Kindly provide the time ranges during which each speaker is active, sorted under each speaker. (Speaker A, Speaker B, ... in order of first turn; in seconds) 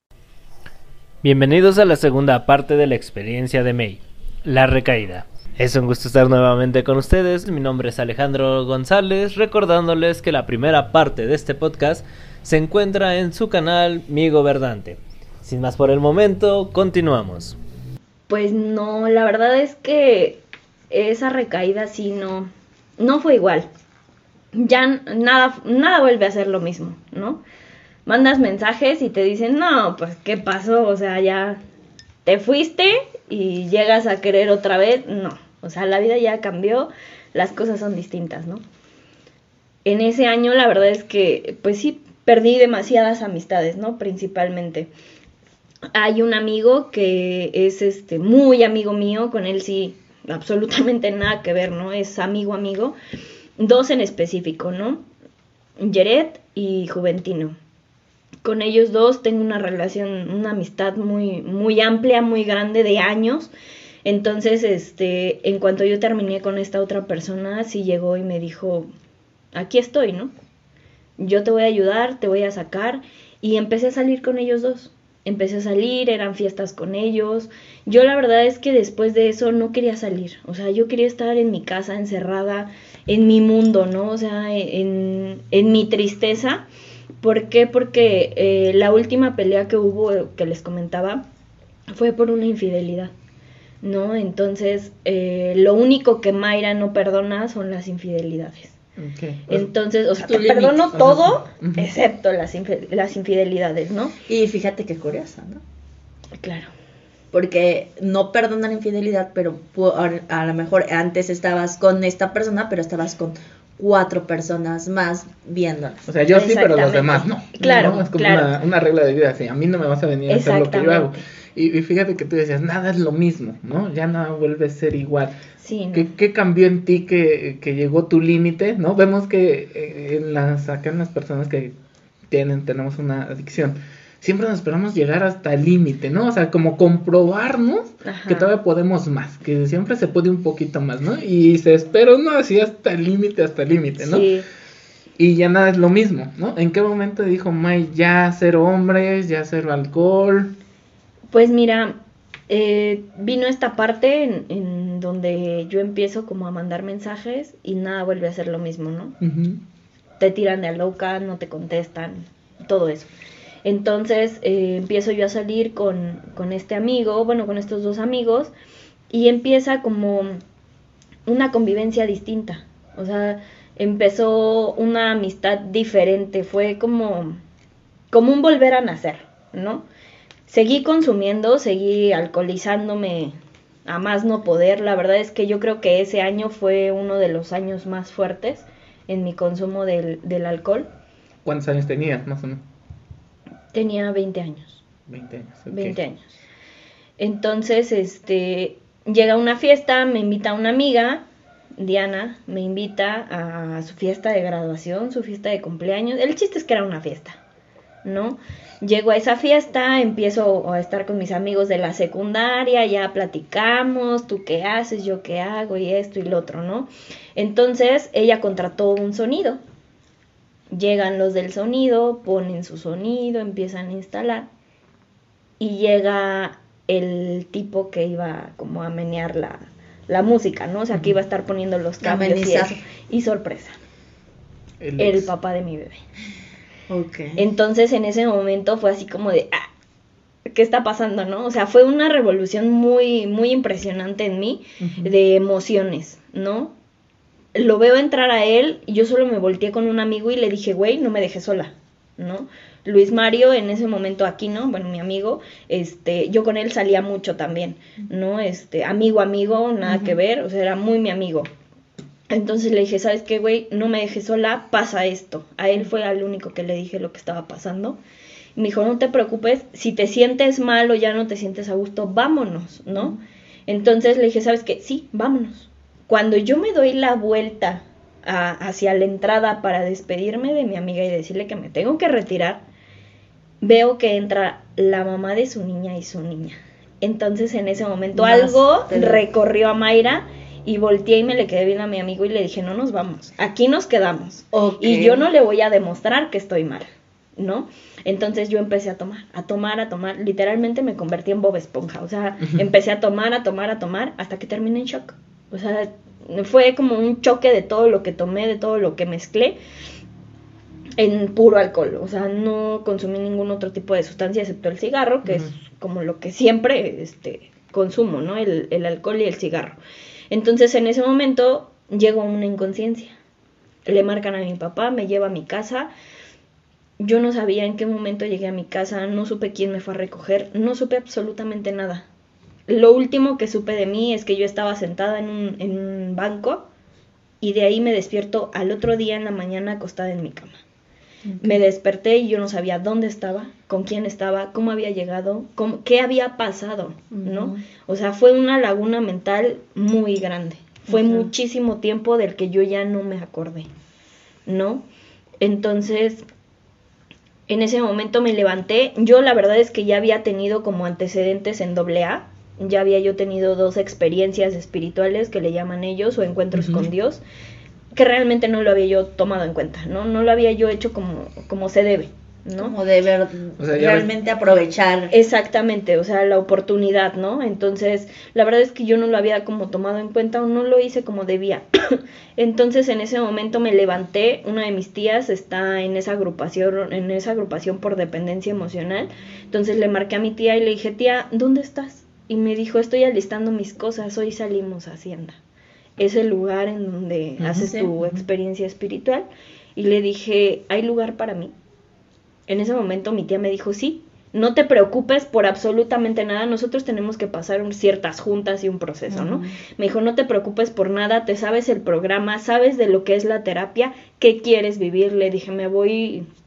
Speaker A: 1.2-17.6
Speaker B: 18.3-23.7, 24.5-27.4, 28.1-31.6, 32.2-38.6, 39.8-44.9, 45.9-53.0, 53.6-55.0, 55.8-57.6, 58.4-63.5, 64.0-68.9, 69.5-70.3, 71.2-86.6, 87.2-91.2, 91.9-93.1, 93.8-98.7, 99.5-104.1, 106.4-106.7, 116.3-118.5, 120.3-121.2, 125.6-126.1, 138.0-138.5, 144.0-144.5, 151.3-152.0, 152.5-159.1, 160.2-163.1, 163.6-168.5, 169.1-170.4, 171.2-177.4, 178.1-179.8, 180.5-183.3, 183.8-190.9, 193.7-194.8, 195.7-196.3, 197.2-201.2, 201.8-207.4, 208.0-219.6, 220.7-224.5, 225.6-233.8, 235.0-236.0, 237.4-239.7, 240.5-246.7, 247.5-261.5, 262.3-268.0, 268.6-273.1, 273.7-282.6, 283.6-309.6, 311.0-319.8, 320.3-323.1, 323.9-325.9, 327.0-332.1, 332.7-336.6, 337.4-340.6, 341.4-353.7, 354.4-354.8, 355.4-356.2, 357.5-367.2, 367.9-372.7, 375.1-395.4, 396.0-401.5, 402.5-416.2
Speaker C: 99.0-99.7, 100.9-101.9, 116.1-125.3, 125.9-131.7, 132.3-144.3, 145.2-150.5, 159.2-159.6, 191.4-192.6, 195.1-196.0, 234.8-235.3, 244.8-245.1, 373.6-374.1, 397.5-398.1
Speaker D: 100.2-101.0, 104.3-105.6, 107.3-116.0, 232.0-232.8, 236.9-237.4, 259.8-260.2, 288.1-289.2, 294.5-295.3, 341.2-341.6, 347.1-347.6, 350.9-351.3, 372.6-375.1, 397.5-397.9, 409.1-409.6